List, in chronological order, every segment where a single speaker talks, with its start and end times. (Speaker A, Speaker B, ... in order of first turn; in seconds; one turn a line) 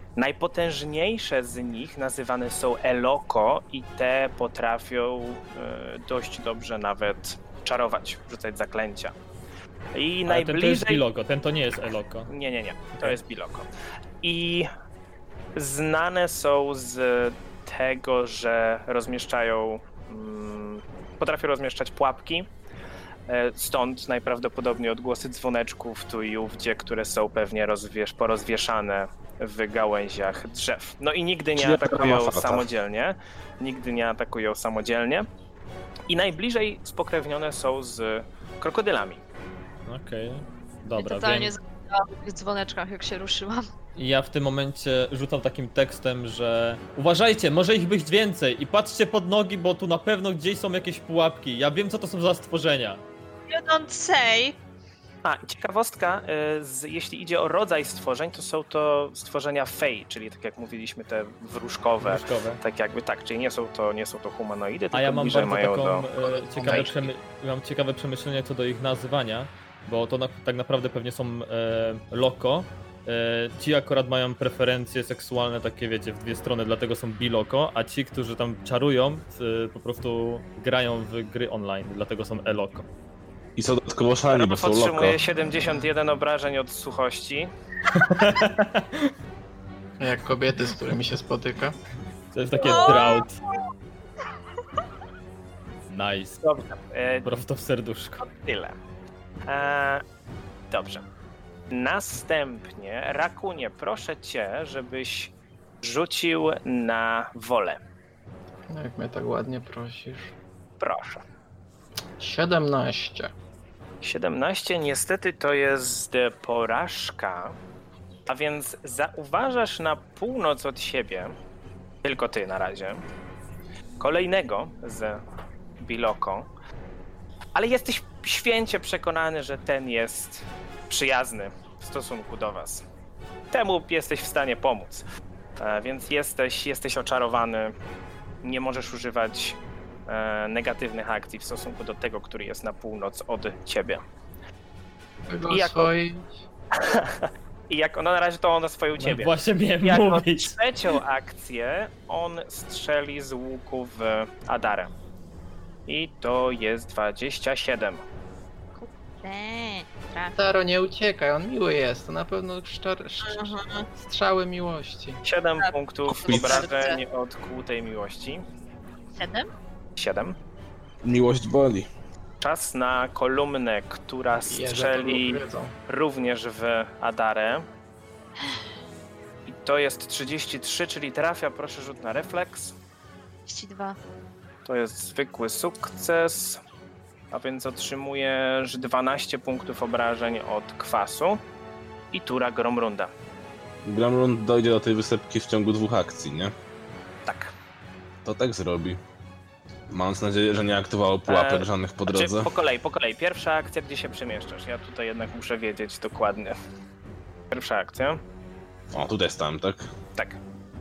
Speaker A: 0.2-9.1
Speaker A: 9.9-11.0
Speaker B: 10.3-12.3
Speaker A: 12.3-13.7
Speaker A: 14.2-14.7
Speaker A: 15.6-22.5
Speaker A: 23.3-35.3
Speaker C: 31.6-32.7
Speaker A: 36.1-39.2
Speaker B: 39.9-41.5
Speaker D: 41.0-43.7
Speaker B: 44.0-53.0
Speaker D: 53.5-54.6
Speaker A: 55.2-66.1
Speaker B: 62.0-62.6
Speaker B: 64.9-82.9
Speaker E: 66.2-66.9
Speaker A: 66.6-67.1
Speaker C: 83.6-85.2
Speaker A: 84.3-87.5
Speaker E: 85.4-85.9
Speaker B: 87.9-89.1
Speaker E: 90.0-91.8
Speaker B: 92.3-93.4
Speaker D: 92.6-93.3
Speaker B: 95.9-96.4
Speaker A: 96.4-97.3
Speaker B: 97.2-98.2
Speaker A: 98.2-98.8
Speaker A: 99.5-100.0
Speaker A: 100.7-101.0
Speaker A: 101.7-107.8
Speaker E: 108.7-110.3
Speaker A: 110.8-111.2
Speaker E: 112.2-113.3
Speaker A: 114.0-117.6
Speaker A: 118.3-121.3
Speaker A: 122.0-123.0
Speaker A: 124.0-125.2
Speaker A: 125.8-126.5
Speaker A: 127.5-132.8
Speaker A: 133.5-135.0
Speaker A: 135.6-137.7
Speaker A: 138.4-144.0
Speaker E: 145.3-146.4
Speaker A: 145.5-145.9
Speaker A: 146.8-149.3
Speaker B: 149.0-150.6
Speaker A: 149.8-154.9
Speaker A: 155.9-158.0
Speaker D: 158.8-160.4
Speaker E: 160.4-165.2
Speaker D: 163.2-163.9
Speaker A: 165.2-168.4
Speaker D: 165.6-167.0
Speaker C: 166.1-166.7
Speaker D: 169.1-169.5
Speaker A: 170.0-170.3
Speaker C: 171.0-171.9
Speaker A: 172.4-177.7
Speaker E: 174.4-175.7
Speaker A: 179.5-182.8
Speaker D: 183.5-184.0
Speaker A: 184.7-186.6
Speaker A: 187.3-191.4
Speaker A: 192.1-193.1
Speaker C: 193.8-196.5
Speaker A: 197.2-197.5
Speaker C: 198.2-199.0
Speaker C: 199.9-202.5
Speaker A: 201.3-206.6
Speaker A: 207.5-208.2
Speaker C: 208.9-209.9